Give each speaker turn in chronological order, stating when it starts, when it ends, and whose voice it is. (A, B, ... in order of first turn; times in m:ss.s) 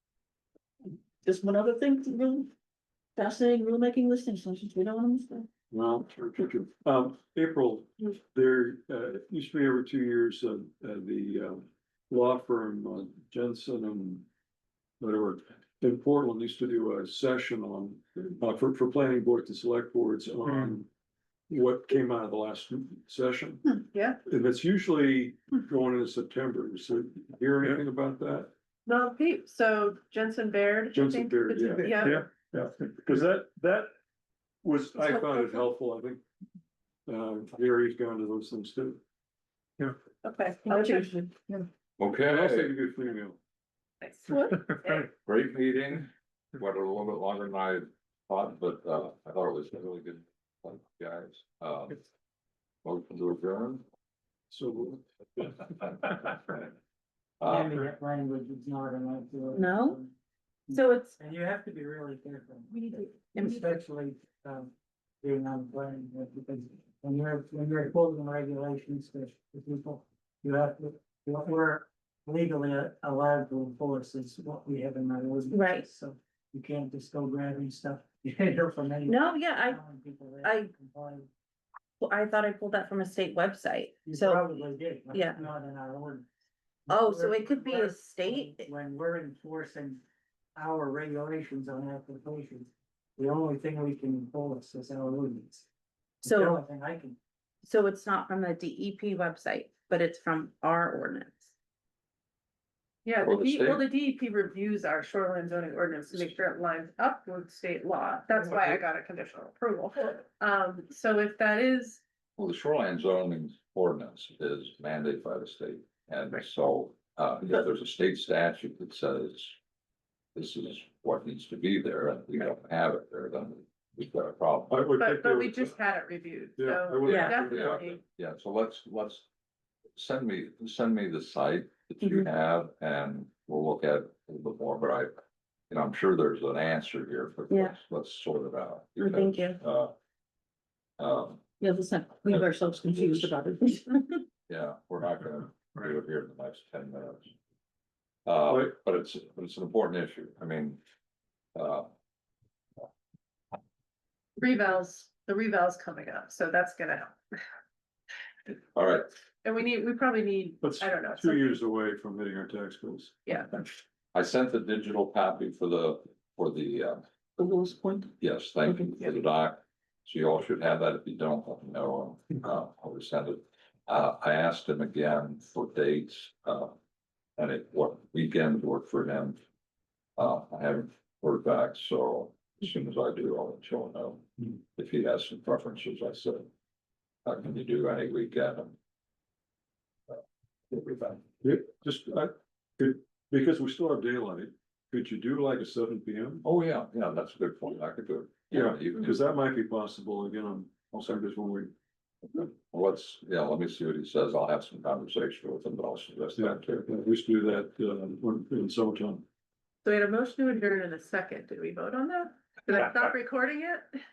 0:01.2-0:02.5 A
0:03.2-0:05.5 A
0:05.7-0:14.3 B
0:15.0-0:20.9 B
0:21.5-0:23.6 B
0:23.7-0:24.2 C
0:24.2-0:28.5 B
0:28.9-0:32.3 C
0:30.9-0:33.9 B
0:31.6-0:32.0 A
0:34.6-0:36.2 B
0:35.0-0:35.6 C
0:37.1-0:39.0 B
0:40.2-0:41.2 C
0:40.6-0:41.7 A
0:42.0-0:42.7 D
0:42.3-0:43.4 B
0:44.0-0:45.1 C
0:45.2-0:52.0 D
0:52.8-0:53.8 D
0:54.5-0:55.9 B
0:57.4-0:57.8 D
0:57.4-1:00.1 E
0:59.5-1:00.0 F
1:00.7-1:21.3 E
1:00.7-1:01.2 F
1:02.7-1:03.8 F
1:15.5-1:15.9 F
1:19.1-1:19.8 F
1:20.4-1:20.7 F
1:22.0-1:24.4 F
1:24.1-1:26.3 E
1:25.1-1:25.4 F
1:26.9-1:30.0 E
1:26.9-1:28.7 F
1:30.6-1:35.7 E
1:36.2-1:37.2 E
1:36.2-1:36.6 F
1:37.6-1:41.5 F
1:43.0-1:52.0 C
1:43.2-1:43.8 D
1:52.4-1:59.6 D
2:00.4-2:04.9 D
2:04.7-2:05.8 B
2:05.0-2:08.0 C
2:06.6-2:07.8 B
2:07.0-2:09.3 D
2:07.1-2:07.4 F
2:10.0-2:19.9 D
2:17.5-2:17.8 F
2:19.0-2:19.6 F
2:21.0-2:21.4 D
2:21.6-2:23.9 A
2:22.3-2:23.3 D
2:24.5-2:27.3 D
2:28.3-2:30.8 D
2:28.5-2:28.7 B
2:31.6-2:31.9 D
2:34.4-2:37.1 C
2:38.8-2:39.1 D
2:39.4-2:41.5 C
2:40.6-2:43.2 B
2:43.3-2:43.5 C
2:44.1-2:47.0 D
2:47.4-2:48.1 A
2:48.2-2:56.7 D
2:48.7-2:49.0 A
2:57.4-2:59.4 D
3:00.2-3:06.5 D
3:07.3-3:08.8 D
3:10.1-3:11.3 D
3:11.4-3:16.4 B
3:16.4-3:19.1 D
3:18.5-3:21.7 B
3:22.3-3:26.9 D
3:26.4-3:29.2 B
3:29.8-3:33.9 C